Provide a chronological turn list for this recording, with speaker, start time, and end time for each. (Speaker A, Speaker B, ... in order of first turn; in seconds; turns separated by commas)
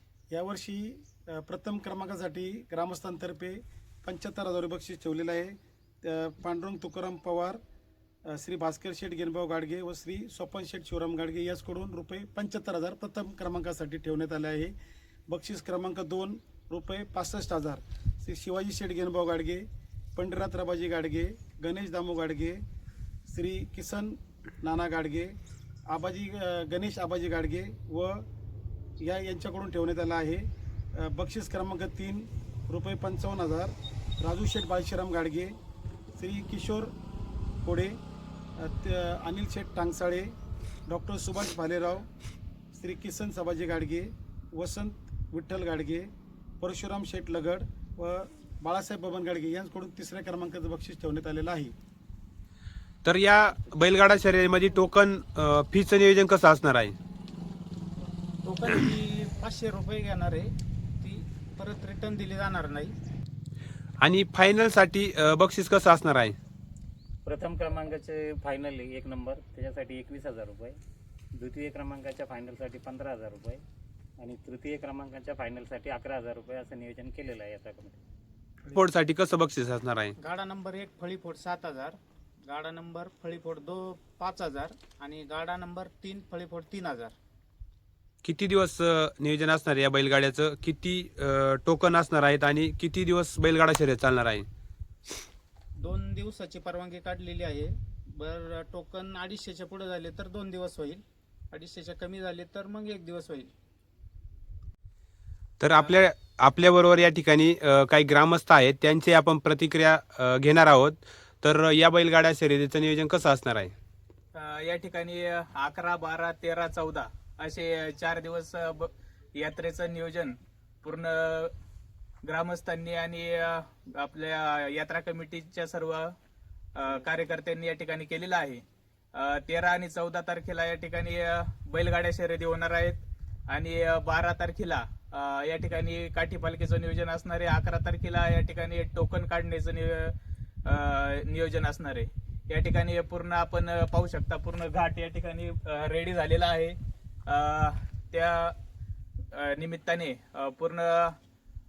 Speaker A: 0.3-7.6, Speaker A: 8.3-14.7, Speaker A: 15.3-22.6, Speaker A: 23.3-25.3, Speaker A: 25.9-28.3, Speaker A: 29.0-30.5, Speaker A: 31.0-35.5, Speaker A: 36.2-36.9, Speaker A: 37.6-38.0, Speaker A: 38.6-40.3, Speaker A: 40.9-42.1, Speaker A: 42.7-46.1, Speaker A: 46.6-51.7, Speaker B: 53.0-56.9, Speaker C: 58.6-60.5, Speaker C: 61.0-62.9, Speaker B: 64.0-66.4, Speaker D: 67.2-70.8, Speaker D: 71.4-73.6, Speaker D: 74.2-78.0, Speaker B: 78.7-80.1, Speaker C: 80.5-82.0, Speaker C: 82.5-87.1, Speaker B: 88.2-94.5, Speaker C: 96.1-97.7, Speaker C: 98.3-101.0, Speaker C: 101.5-103.5, Speaker B: 105.6-113.7, Speaker E: 114.3-121.5, Speaker E: 122.2-126.1, Speaker E: 126.8-128.6, Speaker E: 129.2-140.1, Speaker E: 140.7-146.8, Speaker E: 147.3-148.6, Speaker E: 149.3-151.2